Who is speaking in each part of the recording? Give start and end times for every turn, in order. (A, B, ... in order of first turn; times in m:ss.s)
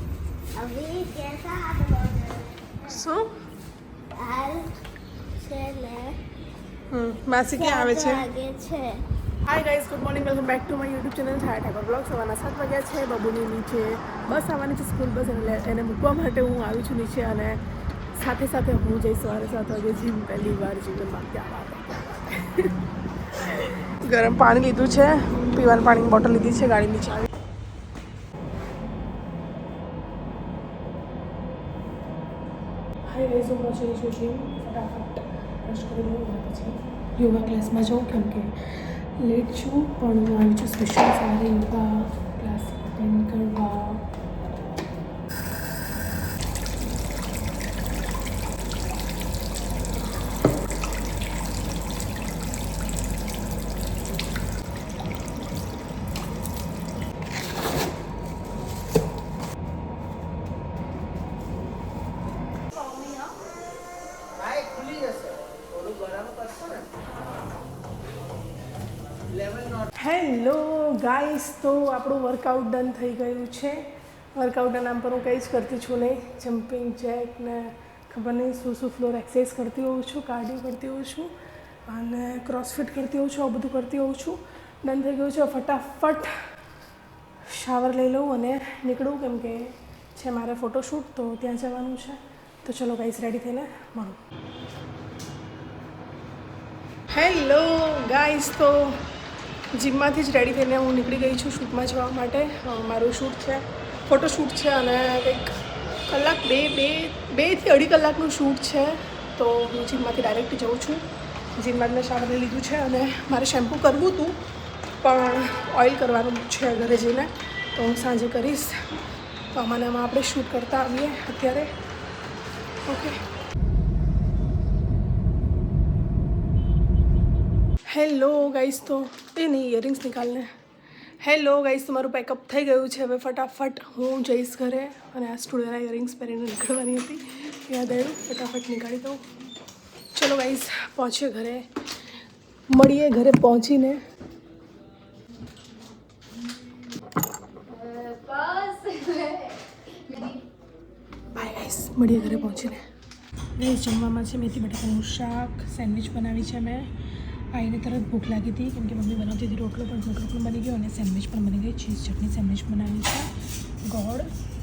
0:00.6-0:02.8 A
0:02.9-0:03.3 B
0:04.1-0:04.7 A
0:05.4-0:06.2 A
0:06.9-0:08.2 B
0:07.6-0:09.0 A
0:09.4-0:17.6 B
0:18.2-0:22.7 B
0:23.4-0:27.3 B
0:33.1-0:44.0 B
1:04.4-1:06.9 C
1:09.4-1:09.9 C
1:10.0-1:13.8 B
1:14.4-1:21.3 B
1:21.9-1:26.4 B
1:27.5-1:34.2 B
1:37.1-1:39.0 B
1:39.7-1:45.5 B
1:46.1-1:51.0 B
1:51.6-1:54.4 B
1:55.0-1:58.7 B
1:59.5-2:01.7 B
2:02.9-2:03.2 B
2:07.9-2:10.5 B
2:11.2-2:19.2 B
2:20.2-2:21.7 B
2:22.7-2:24.0 B
2:27.7-2:30.4 A
2:31.3-2:32.8 B
2:33.6-2:36.9 B
2:37.5-2:43.3 B
2:43.9-2:44.3 B